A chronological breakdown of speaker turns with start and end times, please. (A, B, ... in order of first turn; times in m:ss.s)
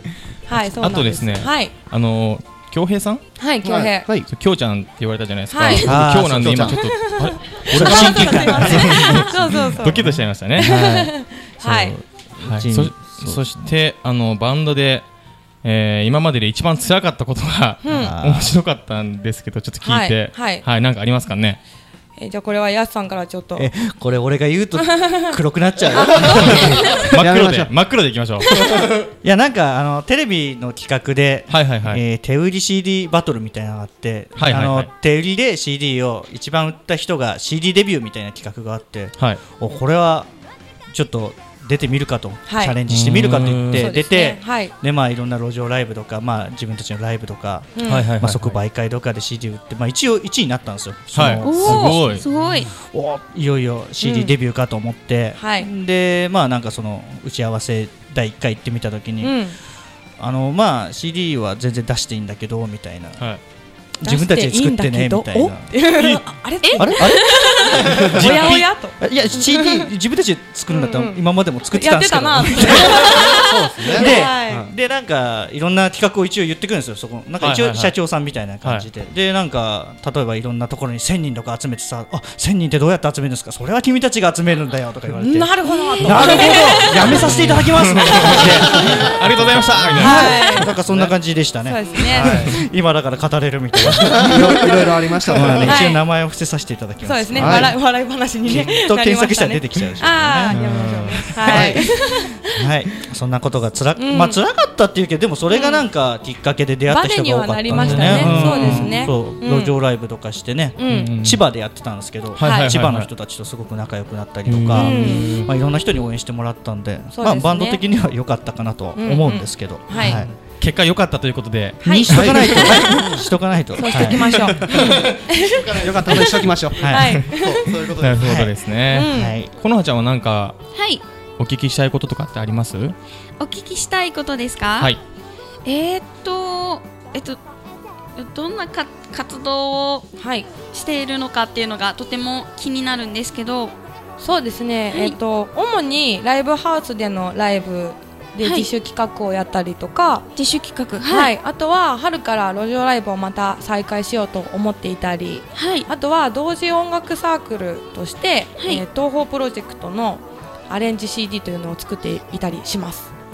0:00.5-0:01.7 A
0:00.6-0:03.2 B
0:03.4-0:04.1 A
0:03.6-0:04.0 C
0:04.0-0:04.3 D
0:04.3-0:10.9 B
0:05.5-0:05.9 A
0:05.8-0:06.8 E
0:06.5-0:07.0 D
0:06.8-0:10.0 A
0:07.7-0:13.7 E
0:10.6-0:12.0 A
0:12.4-0:15.0 B
0:15.6-0:21.6 B
0:17.8-0:18.1 A
0:17.9-0:18.6 E
0:19.8-0:20.6 A
0:22.2-0:23.7 A
0:23.6-0:27.0 E
0:24.8-0:25.4 A
0:25.9-0:26.9 A
0:26.8-0:28.5 B
0:27.2-0:27.7 D
0:29.2-0:40.3 E
0:31.5-0:32.0 B
0:34.4-0:34.9 B
0:40.9-0:52.2 E
0:42.5-0:42.8 A
0:42.9-0:43.9 B
0:43.6-0:44.7 A
0:47.8-0:48.1 A
0:47.8-0:48.5 B
0:51.1-0:52.2 B
0:51.4-0:52.7 F
0:52.8-0:59.4 E
0:54.0-0:54.3 A
0:55.4-0:55.7 A
0:59.2-0:59.6 A
1:00.2-1:03.3 E
1:04.0-1:05.8 E
1:04.0-1:09.9 A
1:06.0-1:06.3 B
1:06.8-1:13.1 E
1:08.2-1:08.7 B
1:10.7-1:14.7 A
1:13.4-1:14.7 D
1:13.9-1:34.7 E
1:17.4-1:17.9 B
1:18.6-1:18.9 B
1:25.2-1:27.2 A
1:26.0-1:27.8 D
1:27.4-1:30.9 B
1:28.5-1:29.1 C
1:30.0-1:30.7 A
1:31.6-1:32.4 A
1:31.9-1:32.5 C
1:32.2-1:32.5 D
1:34.1-1:35.7 C
1:34.2-1:35.8 D
1:35.3-1:37.8 E
1:35.6-1:36.0 A
1:37.0-1:42.5 A
1:37.4-1:37.7 D
1:38.4-1:40.6 E
1:40.5-1:41.6 B
1:41.4-1:41.9 E
1:41.5-1:41.9 D
1:42.5-2:00.3 E
1:44.0-1:44.4 A
1:45.5-1:45.8 A
1:46.9-1:49.7 A
1:47.7-1:49.1 B
1:50.8-1:51.1 A
1:50.9-1:51.4 B
1:52.4-1:53.1 B
1:52.4-1:52.7 A
1:54.5-1:55.5 B
1:54.8-1:55.4 A
1:57.2-1:57.8 A
1:59.0-2:00.2 A
2:00.6-2:01.9 B
2:01.8-2:03.0 A
2:01.8-2:04.5 E
2:02.1-2:03.1 D
2:03.8-2:06.3 A
2:04.7-2:08.4 C
2:05.8-2:06.8 D
2:06.8-2:07.2 E
2:06.8-2:07.7 A
2:08.0-2:10.6 B
2:08.2-2:08.5 E
2:08.9-2:09.4 A
2:09.0-2:09.5 E
2:10.8-2:11.0 F
2:11.4-2:13.0 B
2:13.4-2:14.9 F
2:15.6-2:17.4 F
2:18.2-2:20.1 F
2:20.2-2:20.5 A
2:20.7-2:23.8 F
2:24.2-2:30.3 A
2:28.4-2:28.7 F
2:30.4-2:31.3 F
2:31.1-2:43.1 A
2:35.6-2:35.9 F